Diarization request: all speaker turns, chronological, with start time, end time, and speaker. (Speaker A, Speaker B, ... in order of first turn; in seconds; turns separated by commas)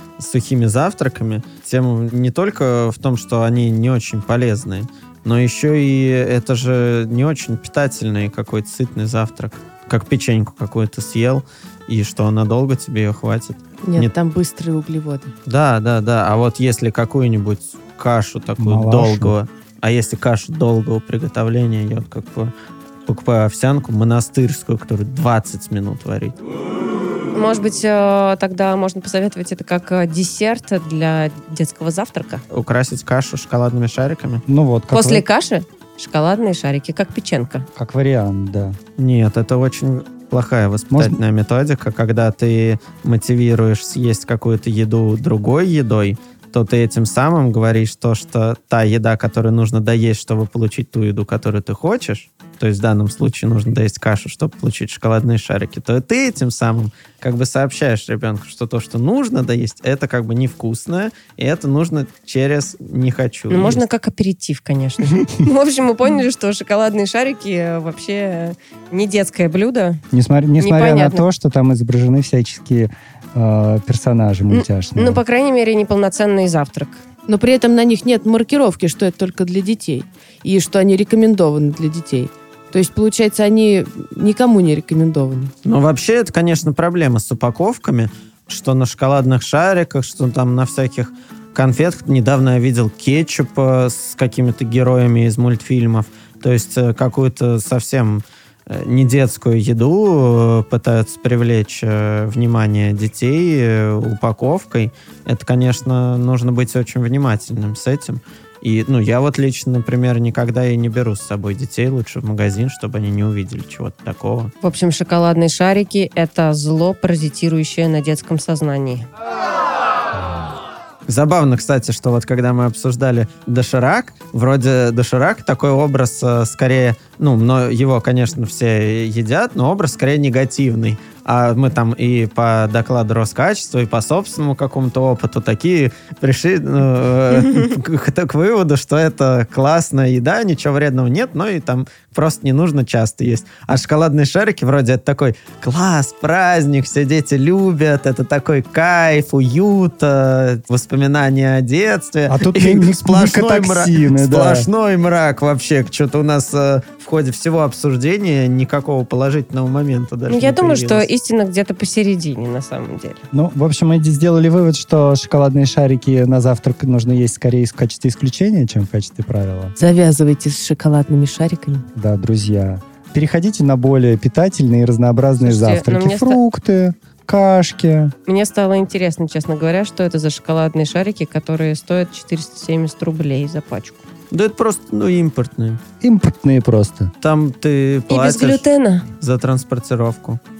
Speaker A: 0.2-14.1, Speaker B: 13.8-15.3, Speaker A: 15.4-22.5, Speaker C: 18.6-19.3, Speaker A: 23.1-26.4, Speaker D: 27.3-32.4, Speaker A: 32.5-34.4, Speaker C: 34.5-35.2, Speaker D: 34.9-37.6, Speaker C: 37.8-38.8, Speaker A: 39.0-63.8, Speaker C: 40.9-41.2, Speaker D: 63.5-70.0, Speaker C: 70.1-75.2, Speaker D: 70.6-71.2, Speaker D: 74.5-77.0, Speaker B: 77.3-85.5, Speaker A: 85.6-114.5, Speaker D: 114.6-119.0, Speaker A: 121.1-161.1, Speaker C: 152.3-154.7, Speaker D: 160.3-163.2, Speaker C: 163.3-169.8, Speaker B: 169.8-171.8, Speaker C: 171.9-178.1, Speaker D: 175.4-176.4, Speaker D: 178.2-184.0, Speaker A: 184.3-185.8, Speaker C: 186.0-187.1, Speaker A: 187.2-188.6, Speaker D: 188.1-189.1, Speaker A: 189.2-190.4